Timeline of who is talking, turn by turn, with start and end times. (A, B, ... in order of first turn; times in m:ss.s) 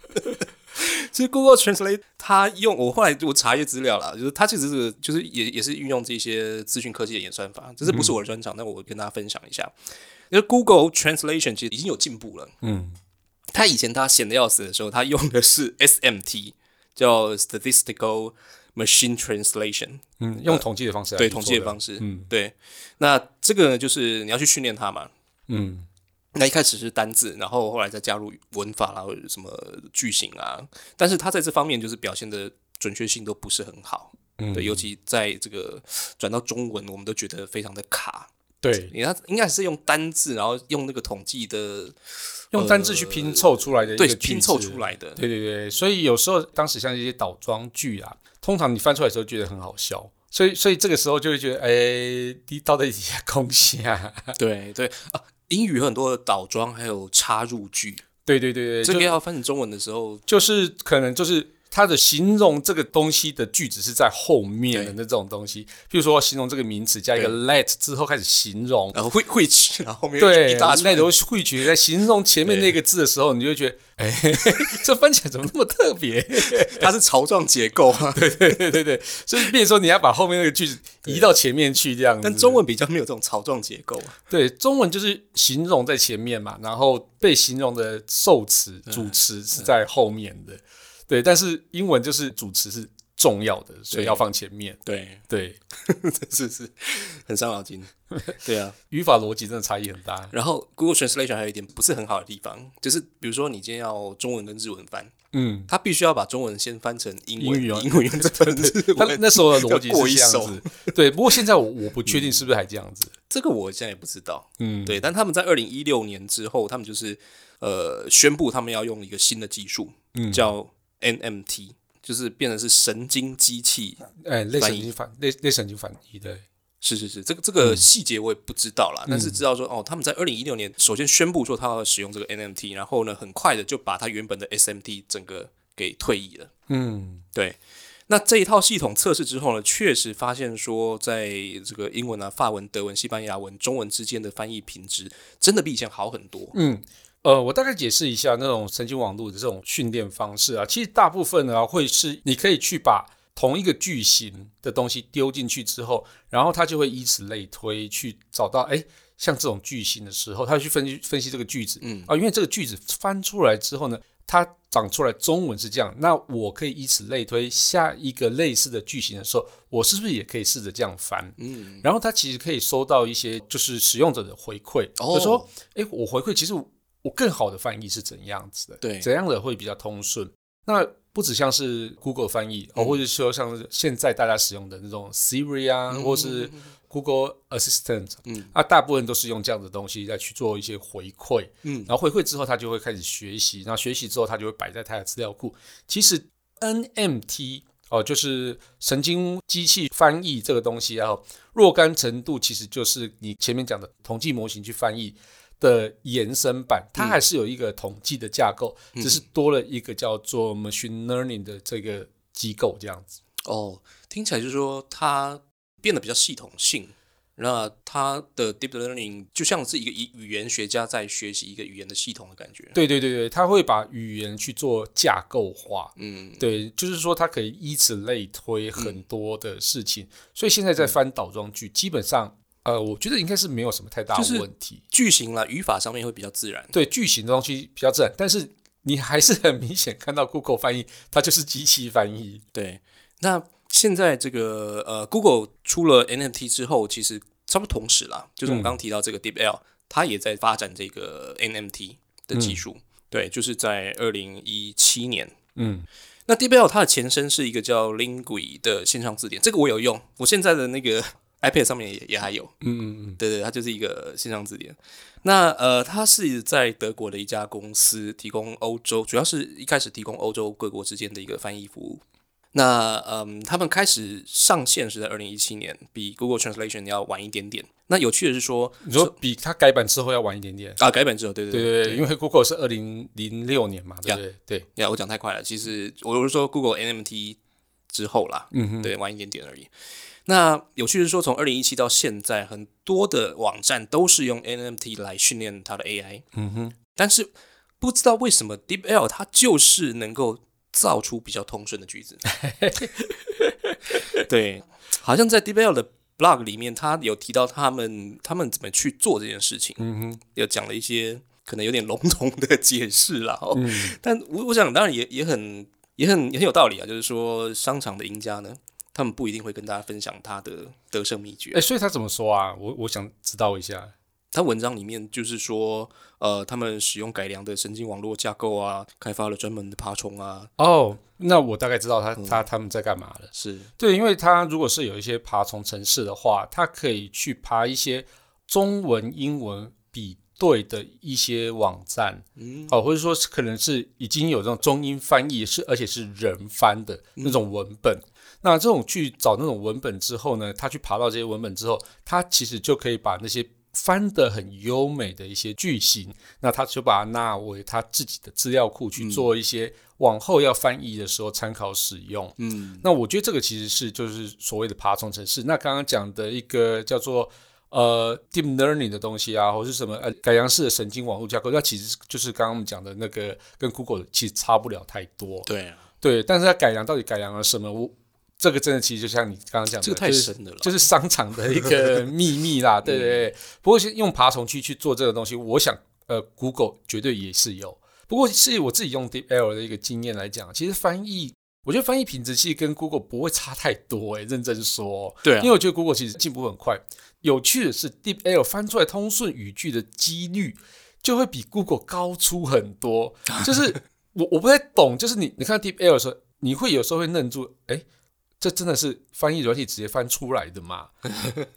0:00.8-0:09.7 A
0:07.9-0:08.1 B
0:10.3-0:12.5 A
0:12.6-0:13.0 B
0:13.5-0:20.6 A
0:20.2-0:22.3 B
0:21.2-0:25.1 A
0:25.5-0:25.9 B
0:26.4-0:38.3 A
0:34.4-0:34.8 B
0:38.6-0:38.9 B
0:38.8-0:42.0 A
0:42.5-0:54.4 B
0:42.5-0:45.2 A
0:54.4-0:58.0 A
0:58.3-0:59.2 B
0:58.8-1:00.2 A
1:00.3-1:09.0 B
1:08.9-1:11.1 A
1:10.2-1:16.9 B
1:12.4-1:12.7 A
1:16.4-1:18.6 A
1:18.1-1:22.6 B
1:22.2-1:24.2 A
1:24.3-1:35.6 B
1:28.9-1:29.7 A
1:33.9-1:34.2 A
1:34.8-1:35.2 A
1:35.8-1:38.8 A
1:38.9-1:40.3 B
1:40.3-1:45.1 A
1:45.3-1:45.7 B
1:45.7-1:50.9 A
1:47.4-1:53.1 B
1:52.1-1:52.4 A
1:53.3-2:04.0 A
1:54.6-1:55.1 B
2:00.1-2:00.5 B
2:04.2-2:06.4 B
2:04.6-2:04.9 A
2:06.8-2:16.5 A
2:09.1-2:09.4 B
2:16.7-2:17.2 B
2:17.3-2:26.6 A
2:26.5-3:33.2 B
2:41.8-2:42.1 A
2:51.4-2:51.9 A
2:55.0-2:55.5 A
2:58.8-2:59.1 A
3:05.9-3:06.7 A
3:08.3-3:08.5 A
3:11.6-3:11.9 A
3:27.0-3:27.2 A
3:29.0-3:29.2 A
3:33.4-3:42.8 A
3:42.8-3:54.8 B
3:46.0-3:46.4 A
3:54.2-3:56.7 A
3:56.7-4:02.4 B
4:02.5-4:15.4 A
4:08.5-4:08.8 B
4:12.3-4:12.6 B
4:15.6-4:15.9 B
4:16.3-4:22.5 A
4:22.6-4:23.2 B
4:23.2-4:32.0 A
4:32.5-4:39.1 A
4:38.8-4:40.8 B
4:40.8-4:42.0 A
4:41.5-4:44.7 B
4:44.8-4:47.4 A
4:47.9-4:49.7 A
4:48.5-4:48.9 B
4:50.3-4:56.2 A
4:56.3-4:56.8 B
4:57.0-5:02.2 A
5:02.3-5:04.2 B
5:04.2-5:21.6 A
5:09.8-5:10.2 B
5:13.5-5:14.0 B
5:21.5-5:23.9 B
5:24.3-5:30.5 A
5:30.6-6:15.5 B
5:32.2-5:32.4 A
5:33.3-5:33.7 A
5:42.4-5:42.8 A
5:59.0-5:59.3 A
6:02.4-6:02.8 A
6:15.5-6:15.8 A
6:16.0-6:47.8 B
6:19.8-6:20.8 A
6:22.8-6:23.2 A
6:35.2-6:35.5 A
6:48.4-6:50.9 B